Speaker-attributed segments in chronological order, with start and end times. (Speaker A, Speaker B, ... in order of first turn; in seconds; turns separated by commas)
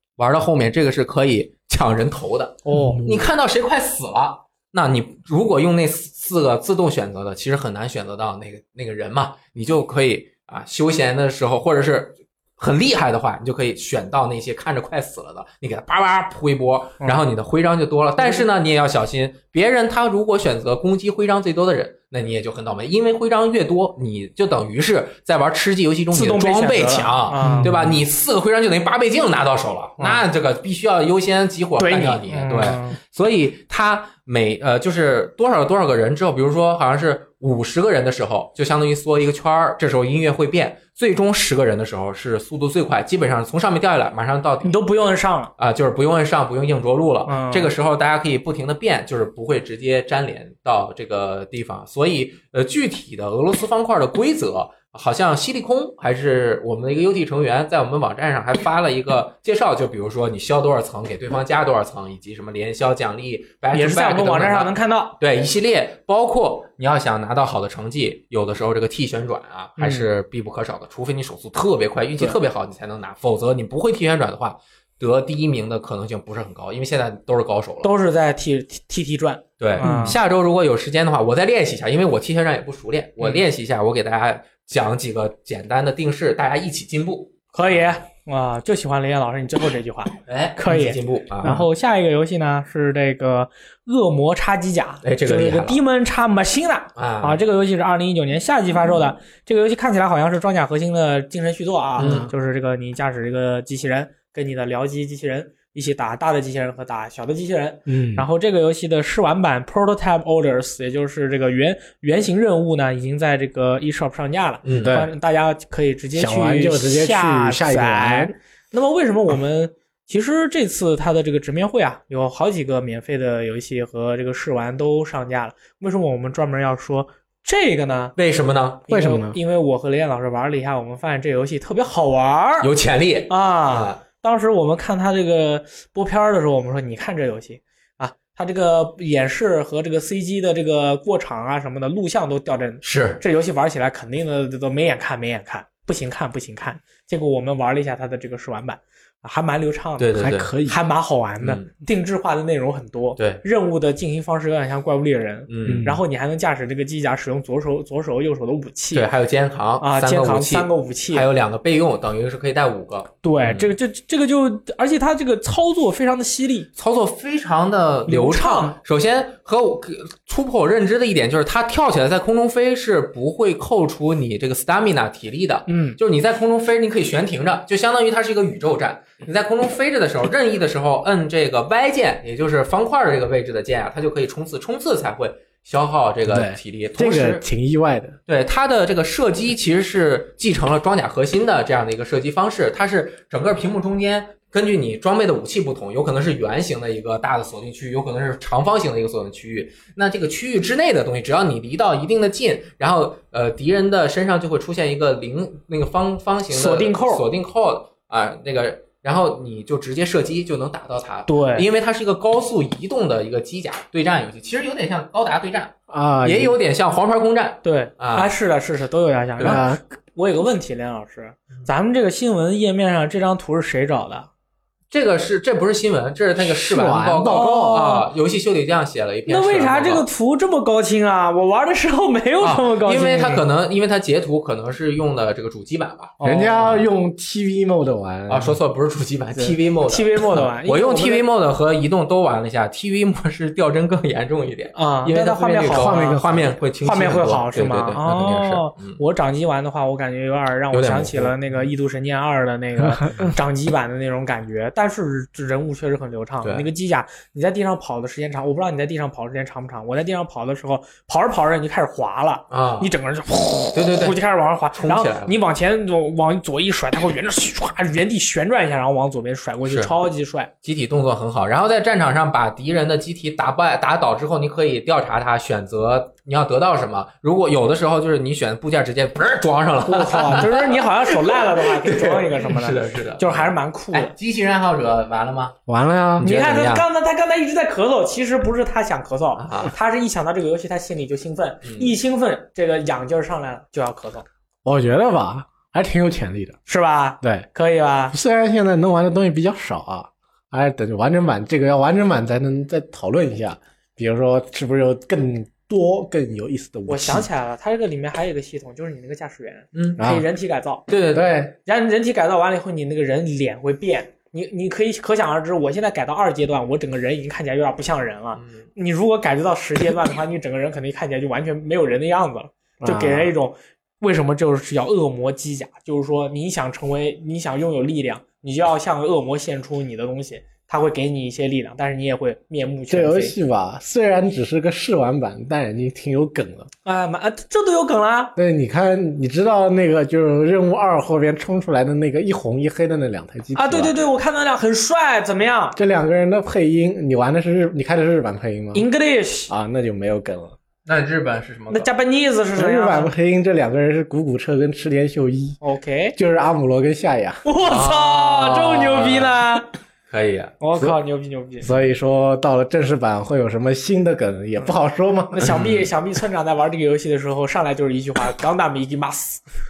Speaker A: 0.2-44.8, Speaker B: 2.6-3.2, Speaker C: 2.7-3.0, Speaker B: 26.1-27.7, Speaker C: 27.4-28.0, Speaker B: 31.8-33.0, Speaker B: 44.6-45.5, Speaker A: 45.6-77.9, Speaker B: 47.2-47.7, Speaker B: 63.7-65.2, Speaker B: 69.8-70.1, Speaker B: 77.8-80.2, Speaker A: 79.6-87.9, Speaker C: 79.8-80.2, Speaker B: 87.5-128.1, Speaker A: 90.3-91.6, Speaker A: 95.0-95.8, Speaker A: 97.0-97.4, Speaker A: 102.0-102.3, Speaker C: 102.0-102.3, Speaker C: 107.9-108.3, Speaker A: 114.6-115.0, Speaker C: 114.8-115.1, Speaker C: 116.1-118.3, Speaker A: 128.2-128.8, Speaker C: 128.9-129.4, Speaker B: 128.9-132.7, Speaker A: 132.6-134.0, Speaker B: 133.3-159.1, Speaker A: 142.8-143.2, Speaker A: 150.0-150.5, Speaker C: 150.2-150.8, Speaker A: 151.4-151.7, Speaker A: 153.2-153.4, Speaker A: 155.5-155.9, Speaker C: 155.6-156.0, Speaker A: 158.9-163.7, Speaker B: 159.8-161.2, Speaker B: 163.2-166.7, Speaker A: 166.8-187.4, Speaker B: 168.1-168.8, Speaker B: 175.7-176.0, Speaker C: 186.3-188.2, Speaker A: 188.3-218.3, Speaker B: 206.5-207.2, Speaker B: 211.3-211.7, Speaker C: 215.9-216.6, Speaker B: 217.6-224.3, Speaker C: 219.4-219.8, Speaker A: 224.9-230.1, Speaker C: 226.4-227.8, Speaker B: 227.2-228.1, Speaker B: 229.3-233.4, Speaker A: 232.4-236.8, Speaker B: 236.2-236.6, Speaker C: 236.2-238.6, Speaker A: 238.3-249.0, Speaker B: 239.3-241.2, Speaker B: 244.7-246.2, Speaker C: 245.7-246.6, Speaker B: 246.8-270.5, Speaker A: 250.7-251.6, Speaker A: 256.4-256.7, Speaker A: 262.5-262.9, Speaker A: 263.7-264.2, Speaker A: 264.7-265.3, Speaker A: 269.6-269.9, Speaker A: 270.6-285.6, Speaker B: 279.8-284.1, Speaker C: 285.7-286.3, Speaker A: 286.2-286.9, Speaker B: 286.2-294.2, Speaker A: 289.4-289.7, Speaker A: 291.6-291.9, Speaker C: 294.6-296.6, Speaker B: 296.7-298.1, Speaker C: 297.2-297.5, Speaker C: 298.1-307.3, Speaker B: 306.9-310.9, Speaker A: 309.7-310.0, Speaker C: 310.0-310.2, Speaker A: 310.9-311.3, Speaker C: 311.1-311.5, Speaker B: 311.6-333.3, Speaker A: 318.4-318.7, Speaker C: 322.8-323.3, Speaker C: 332.9-336.7, Speaker B: 336.8-338.4, Speaker C: 338.4-343.9, Speaker B: 343.5-345.8, Speaker C: 345.7-348.9, Speaker B: 348.7-349.5, Speaker C: 349.5-350.6, Speaker A: 350.9-351.9, Speaker B: 351.7-353.1, Speaker C: 352.5-355.6, Speaker B: 355.6-356.1, Speaker C: 356.1-357.4, Speaker B: 357.4-359.7, Speaker A: 357.6-359.4, Speaker A: 360.1-360.5, Speaker B: 360.6-361.7, Speaker C: 361.6-365.5, Speaker B: 365.3-369.4, Speaker A: 365.4-365.9